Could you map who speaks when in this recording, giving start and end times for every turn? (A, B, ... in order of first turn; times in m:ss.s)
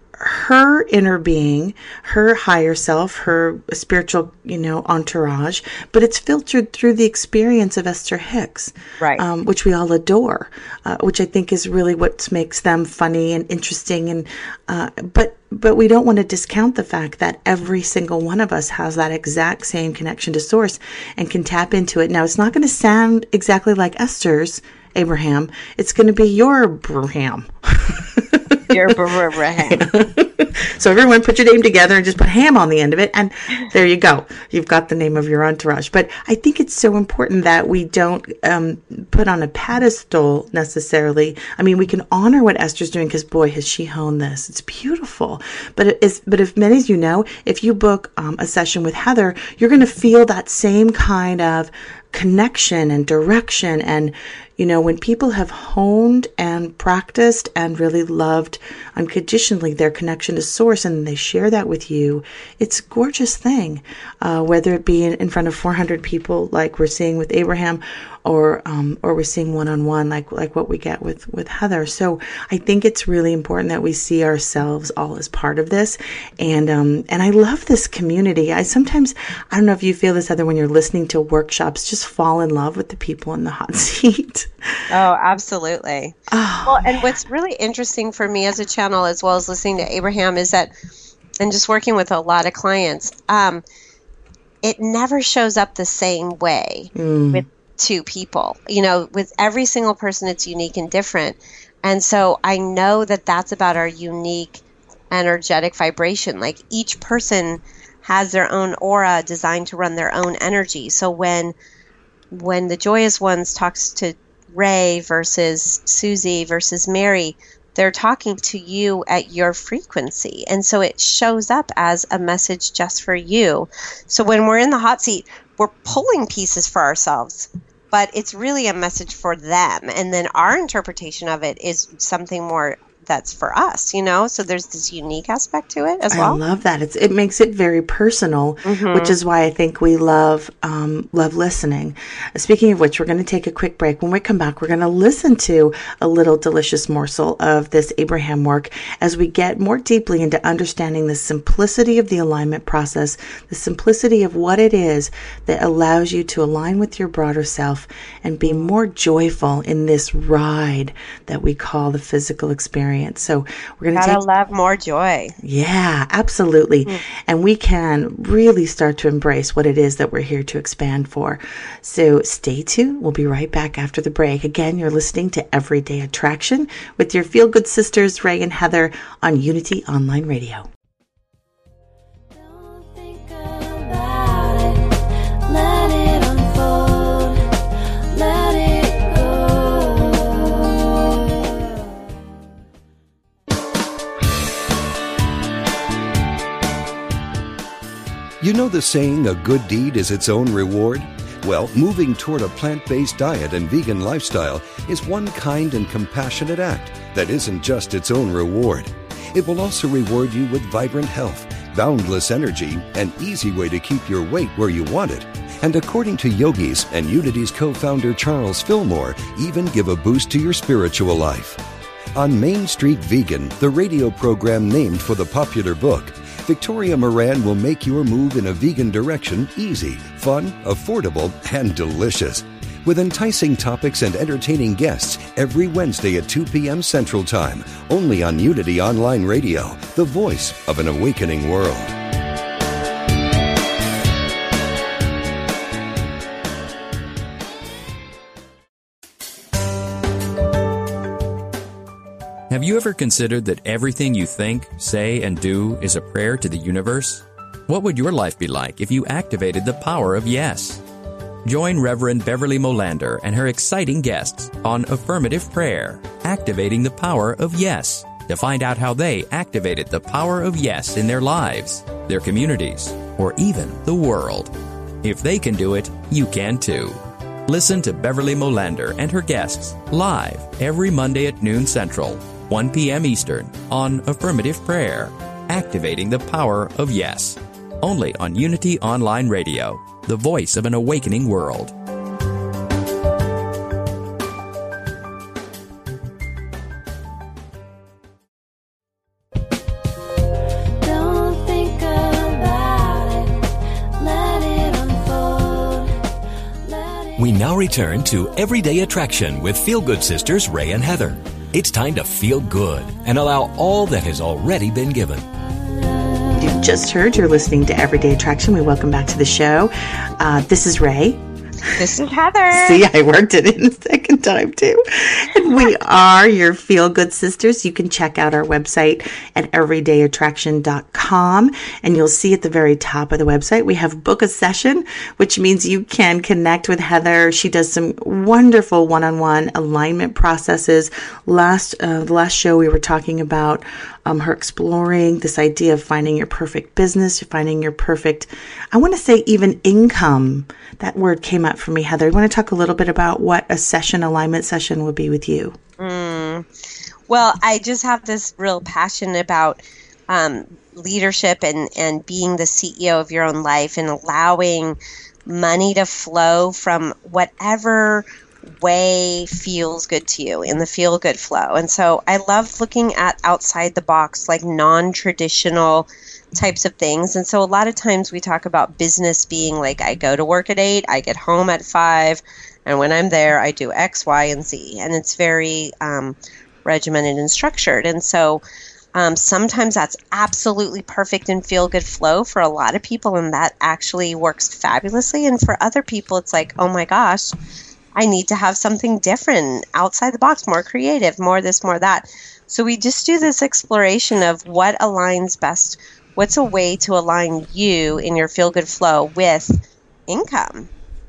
0:00.2-0:28.9 A
0:28.7-0:29.8 B
0:29.7-1:24.5 A
1:24.9-1:30.7 B
1:26.3-1:27.1 A
1:31.4-1:33.6 B
1:34.6-1:51.5 B
1:36.9-1:37.4 A
1:52.3-2:16.4 B
2:16.1-2:44.2 A
2:18.6-2:19.1 B
2:38.4-2:38.7 B
2:43.9-2:45.4 B
2:45.4-3:00.7 A
3:02.3-3:10.6 C
3:18.4-3:41.6 D
3:42.1-4:01.9 D
4:12.5-4:20.8 E
4:21.4-4:51.7 E
5:00.8-5:03.4 C
5:04.0-5:06.0 C
5:06.6-5:07.2 C
5:07.2-5:15.2 F
5:16.4-5:21.2 A
5:21.6-5:22.8 B
5:22.5-5:55.6 A
5:55.8-5:56.5 B
5:57.1-6:28.4 B
6:29.0-6:37.3 B
6:38.0-6:50.7 B